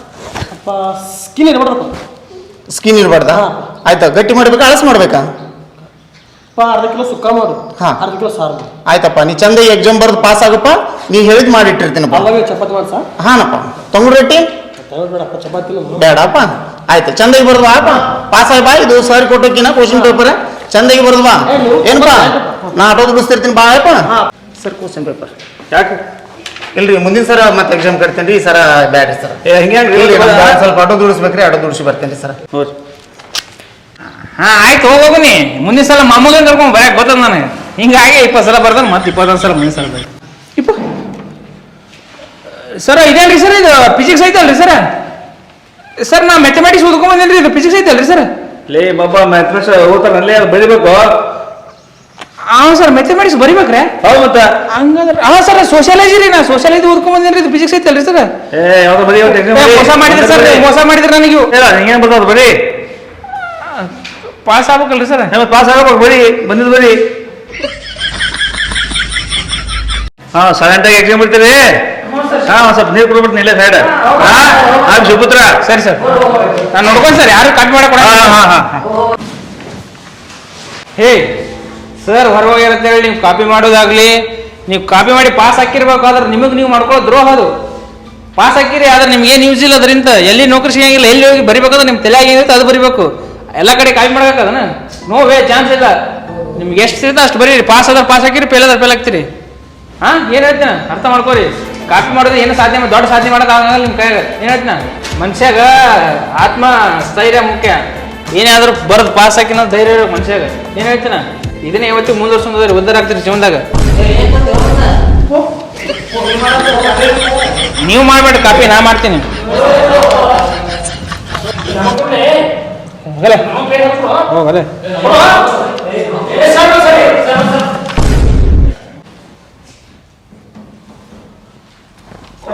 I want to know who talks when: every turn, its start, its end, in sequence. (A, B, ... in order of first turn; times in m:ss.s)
0:00.5-0:01.9 A
0:02.7-0:05.2 B
0:06.6-0:08.7 A
0:08.8-0:12.3 B
0:12.1-0:13.0 A
0:13.2-0:14.4 B
0:14.8-0:16.0 A
0:16.0-0:25.3 B
0:21.6-0:22.5 A
0:25.7-0:26.0 C
0:26.8-0:29.4 B
0:29.4-0:30.6 C
0:29.9-0:32.4 B
0:34.4-0:40.8 D
0:42.7-0:44.8 D
0:46.0-0:48.3 D
0:48.7-0:51.0 C
0:52.5-0:53.9 D
0:54.0-0:54.5 C
0:54.7-0:58.3 D
0:58.5-1:00.6 C
0:59.3-1:01.5 D
1:01.5-1:02.5 C
1:03.6-1:03.9 D
1:04.4-1:05.3 D
1:05.3-1:07.0 C
1:10.3-1:11.6 C
1:12.5-1:15.5 C
1:15.6-1:16.0 D
1:16.7-1:18.4 D
1:18.0-1:18.8 C
1:21.0-1:21.3 D
1:22.0-1:24.2 D
1:24.7-1:27.5 D
1:28.4-1:35.9 D
1:36.6-1:39.3 D
1:40.0-1:53.6 D
1:57.8-1:59.3 D
2:03.1-2:03.6 D
2:04.1-2:04.7 D